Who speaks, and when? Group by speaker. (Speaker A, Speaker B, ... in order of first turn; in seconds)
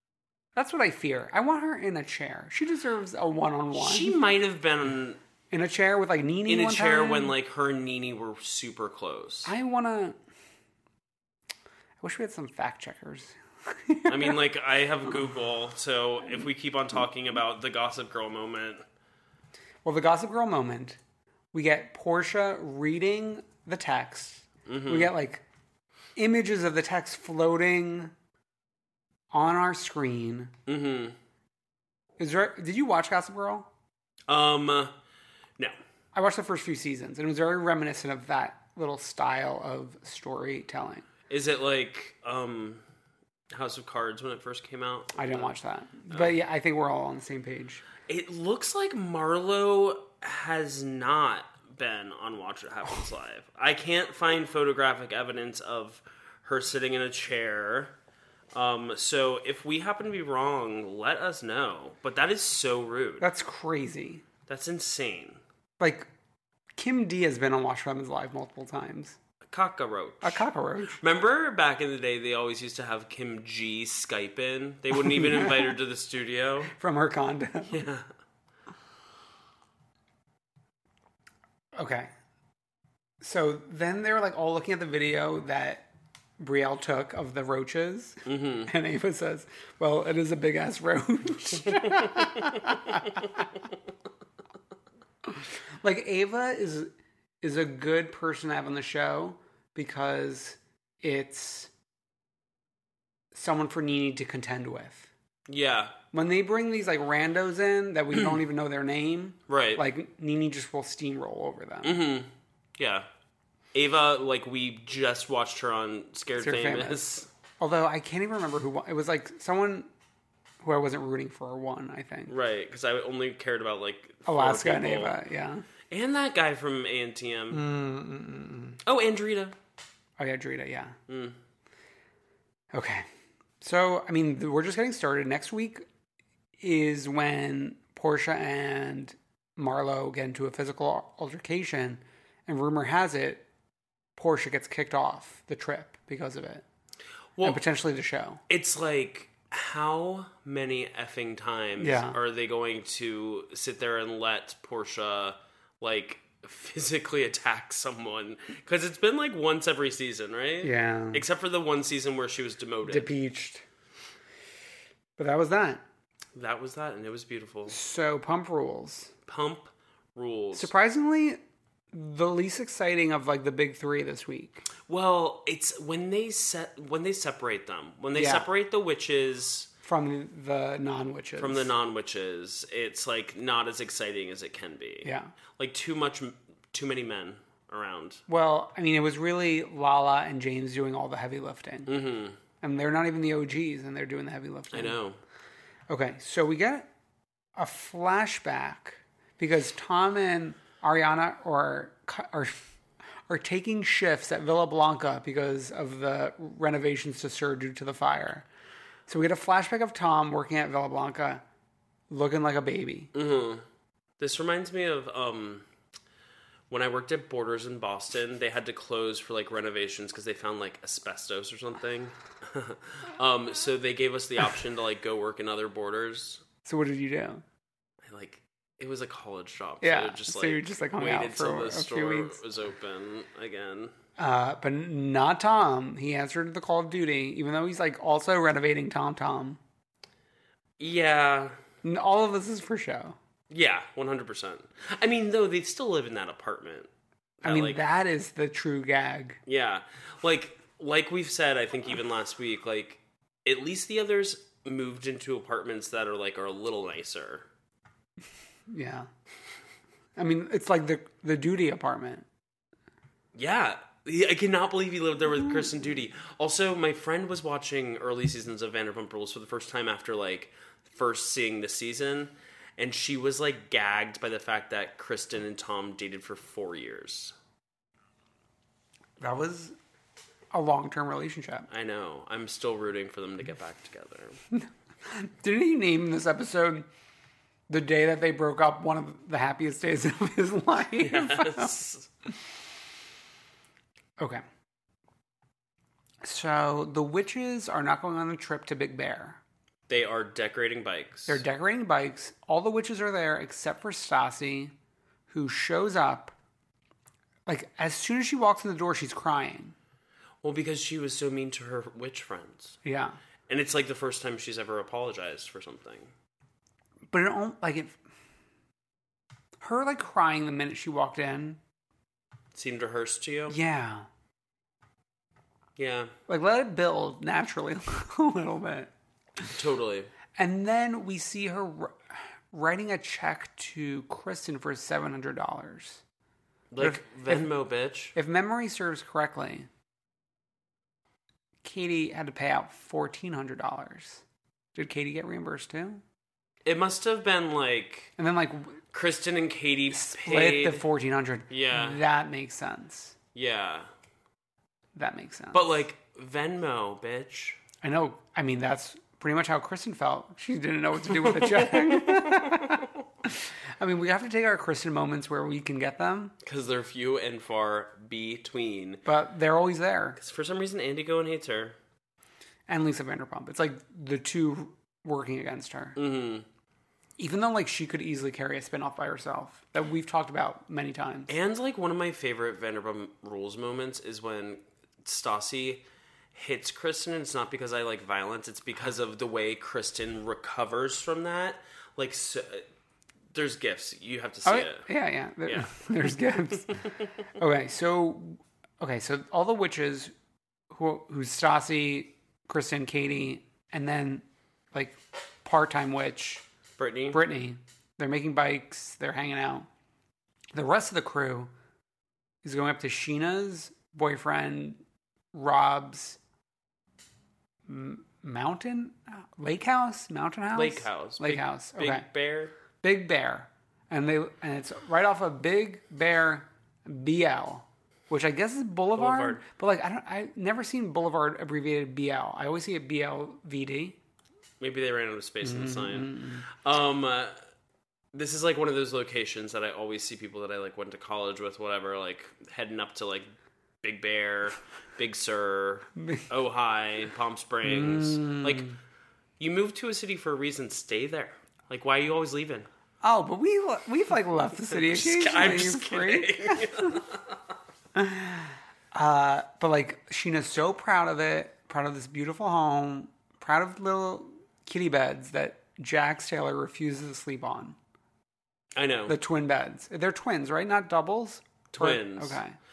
Speaker A: 0.6-4.2, 5.5-7.3, 9.4-10.2, 12.0-14.4, 19.9-21.0, 21.5-25.4, 26.2-28.1, 29.3-30.5, 32.2-33.7, 36.1-41.1, 45.2-47.9, 63.2-64.2, 65.8-66.1, 66.8-69.2, 70.2-71.0, 75.0-75.7, 76.8-77.8, 81.8-82.1, 83.2-85.9, 86.4-93.4, 95.3-101.7, 103.3-105.1, 106.1-112.0, 116.4-119.9, 120.6-122.3, 124.3-125.6, 127.5-128.8, 130.2-131.0, 132.7-133.1, 133.6-135.8, 136.6-143.4, 144.2-146.7, 147.4-148.4, 151.8-152.2, 160.6-161.2, 162.8-163.6, 165.2-165.8, 167.7-169.1, 170.5-171.4, 171.9-174.7, 178.1-178.5, 179.8-181.7, 185.0-185.3, 188.3-191.9, 192.6-195.0, 195.9-196.9, 197.6-202.6, 203.3-208.5, 209.1-211.4, 212.1-213.1, 226.7-227.4, 229.8-232.4, 234.2-239.6, 241.8-243.2, 247.4-249.4, 258.7-259.1, 260.2-262.3, 279.2-279.8, 280.5-281.7, 284.5-286.9, 287.7-291.8, 294.2-294.4, 296.2-299.4, 301.3-304.7, 305.3-306.3, 307.5-309.8, 312.8-313.2, 317.1-318.0, 319.6-321.6, 323.5-324.1, 326.3-329.5, 330.4-332.0, 332.5-336.0, 336.8-337.5, 338.1-339.7, 341.6-344.2, 344.8-346.0, 348.2-348.8, 349.9-353.1, 354.9-355.7, 357.8-366.4, 369.1-370.2, 372.7-376.0, 377.2-381.3, 394.4-396.8, 397.4-400.1, 400.7-406.4, 407.1-409.7, 410.5-411.5, 412.4-414.8, 415.3-416.2, 417.7-422.1, 422.8-434.0, 435.4-436.4, 446.0-446.3, 447.6-448.8, 453.0-457.0, 457.9-467.8, 469.1-472.6
Speaker B: 3.7-5.2, 6.5-9.5, 14.1-18.8, 24.7-25.1, 30.7-31.2, 34.3-34.9, 41.3-42.8, 43.5-45.5, 48.1-57.9, 58.5-63.3, 64.5-65.4, 69.5-76.7, 77.7-78.1, 88.3-88.7, 91.8-92.8, 105.5-106.0, 109.5-109.8, 111.8-113.1, 113.7-117.2, 122.3-125.2, 125.9-127.6, 128.8-129.6, 131.1-131.4, 147.4-147.6, 148.5-163.1, 166.3-167.8, 169.3-170.7, 174.9-179.7, 181.4-188.2, 191.9-192.4, 194.7-195.2, 213.1-213.7, 214.2-215.7, 216.7-226.4, 228.0-233.9, 240.8-241.6, 243.5-246.9, 247.4-247.8, 249.5-257.5, 263.3-277.4, 281.7-284.4, 291.0-292.1, 299.9-301.4, 310.4-312.8, 313.5-316.1, 322.5-323.6, 325.8-326.1, 329.6-330.1, 336.7-338.1, 346.6-348.1, 348.9-350.9, 351.5-352.0, 353.4-353.9, 355.5-357.6, 361.1-362.9, 366.4-369.0, 370.2-371.8, 376.0-376.5, 381.3-392.7, 393.3-394.9, 395.4-395.7, 406.8-407.2, 420.5-422.6, 428.9-429.4, 434.6-437.4, 438.1-443.3, 443.8-448.7, 449.4-452.7, 454.7-457.4, 468.8-469.2, 471.7-472.4